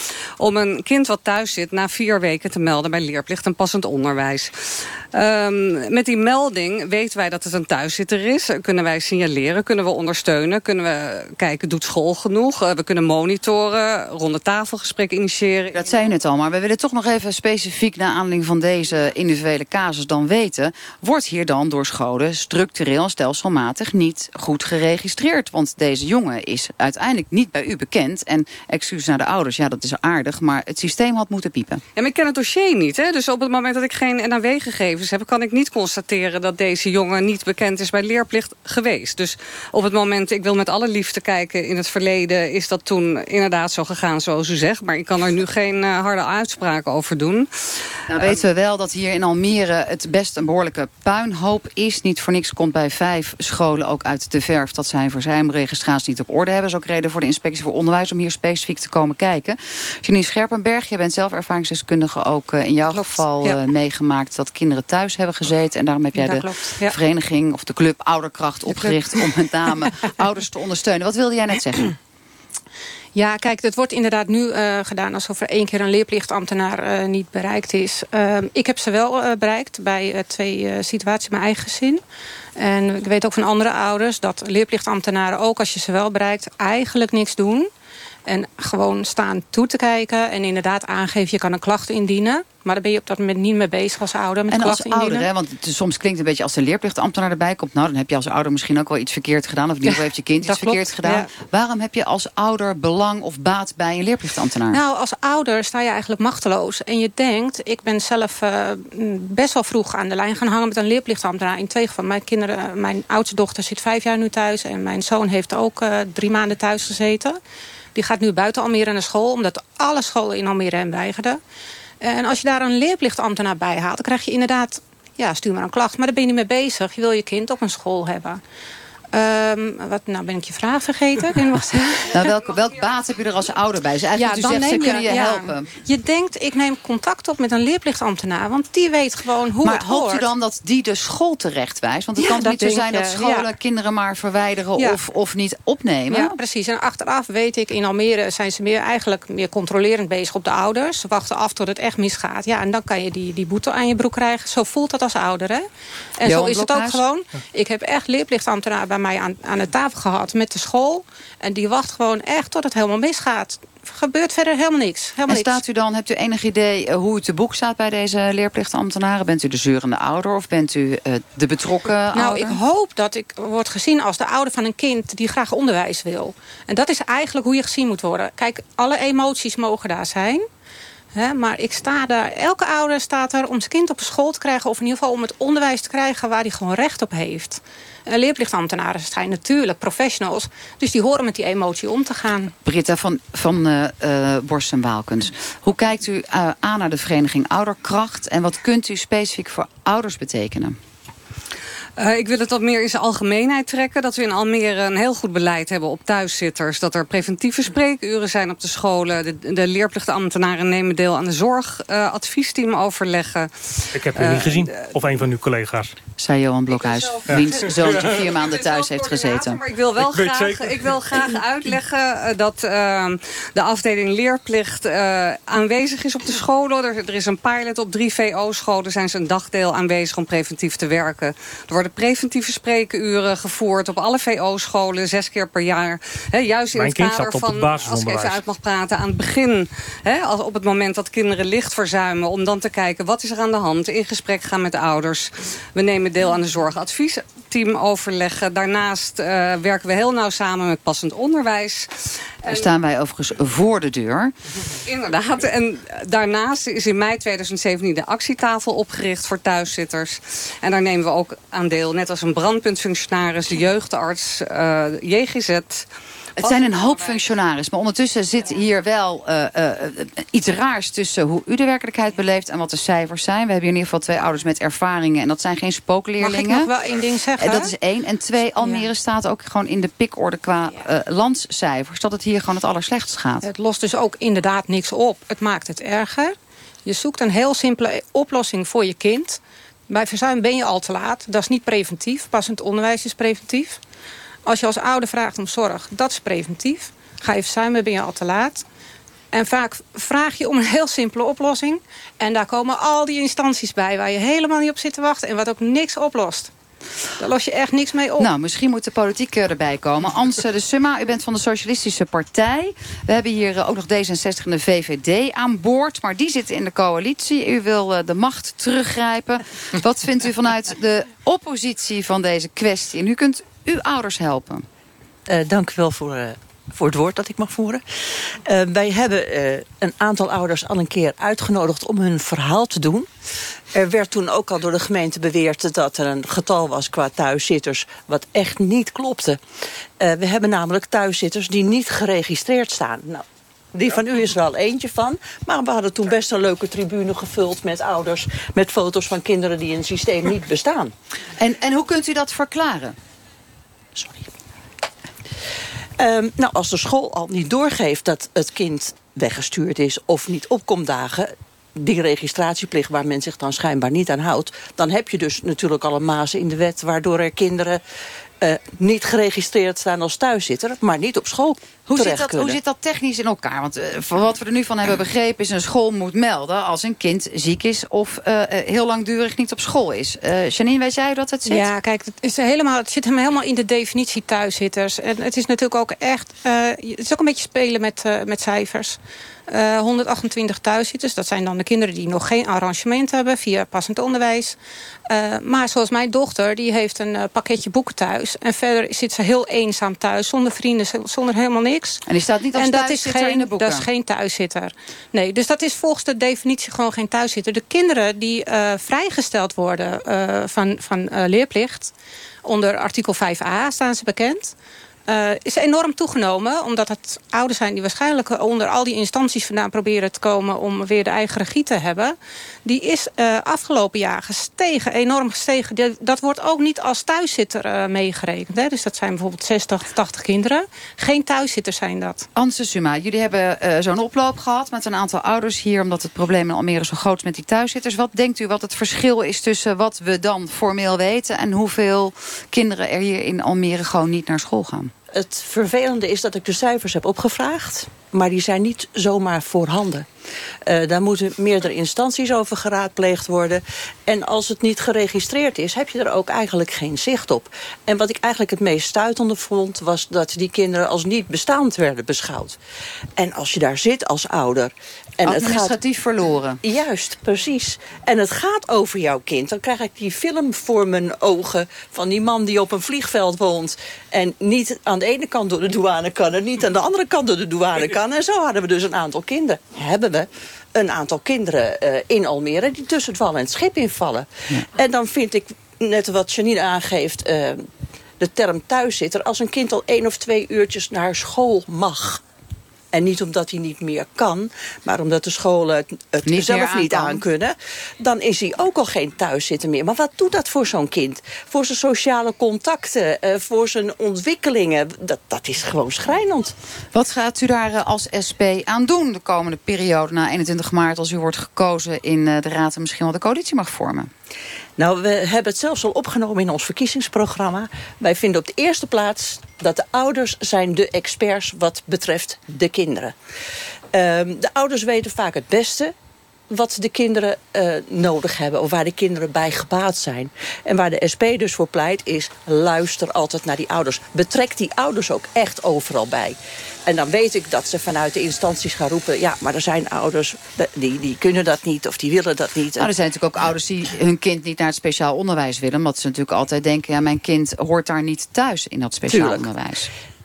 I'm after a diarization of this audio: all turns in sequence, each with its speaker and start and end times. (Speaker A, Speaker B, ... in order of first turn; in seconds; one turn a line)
Speaker A: 0.4-15.9
Speaker B: 15.7-31.8
Speaker A: 32.0-47.8
Speaker B: 48.1-72.0
Speaker C: 66.2-67.0
Speaker C: 73.2-82.0
Speaker C: 82.6-87.7
Speaker C: 88.3-95.3
Speaker B: 94.5-104.8
Speaker C: 100.5-101.3
Speaker C: 104.7-117.4
Speaker C: 118.0-121.4
Speaker C: 122.0-128.4
Speaker C: 129.1-132.3
Speaker B: 132.1-135.7
Speaker C: 134.2-140.3
Speaker B: 139.6-146.4
Speaker C: 142.2-143.5
Speaker C: 146.1-155.7
Speaker C: 156.2-165.6
Speaker B: 156.2-157.0
Speaker B: 165.3-172.6
Speaker C: 172.1-180.4
Speaker C: 181.1-192.6
Speaker B: 192.7-200.8
Speaker A: 202.0-214.9
Speaker D: 213.9-215.9
Speaker B: 216.2-219.6
Speaker A: 216.9-252.7
Speaker D: 217.3-218.3
Speaker D: 220.0-220.9
Speaker D: 236.7-238.4
Speaker B: 252.4-254.3
Speaker A: 254.8-265.9
Speaker B: 266.4-276.7
Speaker A: 266.4-267.2
Speaker C: 276.2-277.7
Speaker B: 277.4-283.5
Speaker C: 283.4-293.8
Speaker C: 294.5-298.7
Speaker C: 299.3-306.5
Speaker C: 307.2-308.3
Speaker B: 308.2-324.7
Speaker E: 325.3-333.1
Speaker E: 333.7-339.4
Speaker E: 340.0-350.9
Speaker B: 351.4-353.0
Speaker E: 354.0-354.3
Speaker E: 356.0-367.8
Speaker E: 368.4-372.6
Speaker B: 371.9-381.7
Speaker C: 381.5-402.0
Speaker B: 402.1-403.9
Speaker C: 402.6-414.6
Speaker C: 415.1-432.3
Speaker B: 432.4-444.9
Speaker E: 445.1-450.1
Speaker E: 450.7-462.6
Speaker E: 463.2-465.7
Speaker B: 465.2-466.6
Speaker E: 466.6-487.7
Speaker E: 488.2-492.2
Speaker E: 492.9-506.5
Speaker B: 496.2-497.2
Speaker B: 506.9-514.1
Speaker E: 514.8-523.1
Speaker E: 523.9-525.9
Speaker E: 526.5-542.9
Speaker B: 542.8-549.9
Speaker E: 549.1-549.5